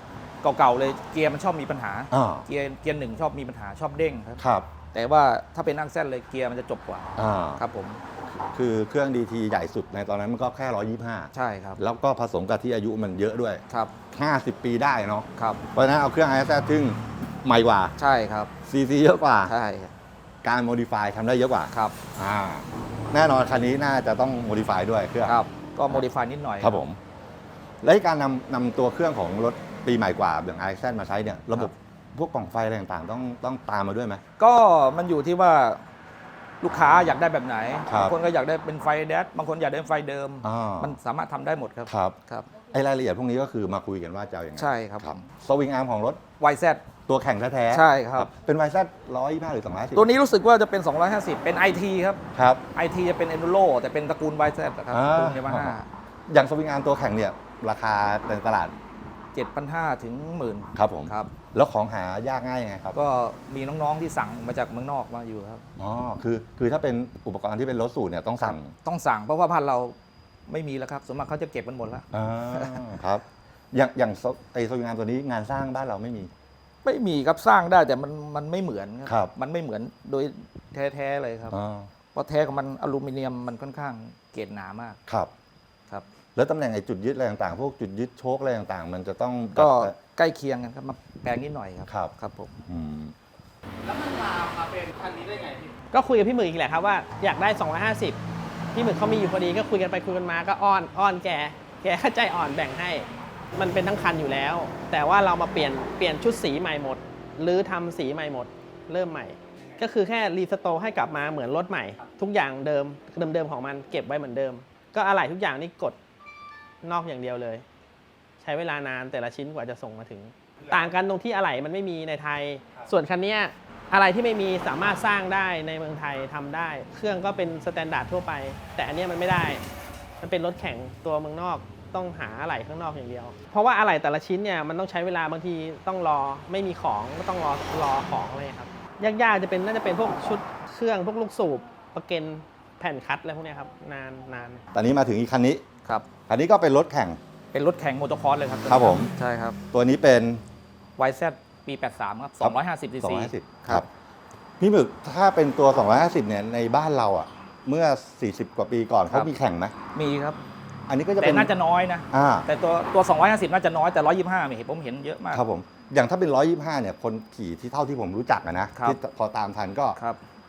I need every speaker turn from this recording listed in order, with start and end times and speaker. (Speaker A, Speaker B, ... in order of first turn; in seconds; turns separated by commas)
Speaker A: 0.4-4.4, Speaker B: 2.1-2.5, Speaker B: 4.4-4.7, Speaker A: 4.9-7.1, Speaker B: 7.2-7.6, Speaker A: 7.6-8.0, Speaker B: 8.3-17.9, Speaker A: 11.3-11.8, Speaker A: 15.3-15.6, Speaker A: 18.0-18.5, Speaker B: 18.7-19.5, Speaker A: 19.4-19.9, Speaker B: 20.4-26.0, Speaker A: 21.7-21.9, Speaker A: 25.2-26.8, Speaker B: 26.6-27.0, Speaker B: 27.8-34.2, Speaker A: 34.4-35.8, Speaker A: 36.6-42.5, Speaker B: 37.9-38.1, Speaker B: 40.4-41.0, Speaker B: 41.9-42.2, Speaker B: 42.7-46.2, Speaker A: 44.6-45.1, Speaker A: 46.4-46.8, Speaker B: 47.1-50.1, Speaker A: 47.7-48.3, Speaker A: 49.9-52.2, Speaker B: 52.3-52.6, Speaker A: 52.7-55.9, Speaker B: 54.9-55.8, Speaker B: 56.3-58.7, Speaker A: 59.3-61.3, Speaker B: 60.7-63.0, Speaker A: 62.9-65.6, Speaker B: 65.8-68.7, Speaker A: 68.4-70.0, Speaker A: 70.5-73.0, Speaker B: 72.1-76.3, Speaker A: 76.8-81.6, Speaker B: 79.0-79.3, Speaker B: 81.5-81.9, Speaker A: 82.1-85.0, Speaker B: 86.3-90.0, Speaker A: 89.5-92.5, Speaker B: 92.7-93.1, Speaker A: 95.1-95.5, Speaker C: 95.9-98.2, Speaker C: 98.7-116.0, Speaker C: 116.8-117.6, Speaker C: 118.4-129.6, Speaker C: 130.2-144.7, Speaker B: 144.7-145.6, Speaker B: 146.3-147.2, Speaker A: 147.5-149.6, Speaker B: 148.7-149.1, Speaker B: 149.7-150.4, Speaker A: 151.0-153.8, Speaker B: 152.4-153.9, Speaker B: 154.6-159.7, Speaker A: 159.9-160.4, Speaker B: 160.9-161.5, Speaker A: 161.2-165.4, Speaker B: 162.1-162.5, Speaker B: 165.3-170.0, Speaker A: 168.7-169.0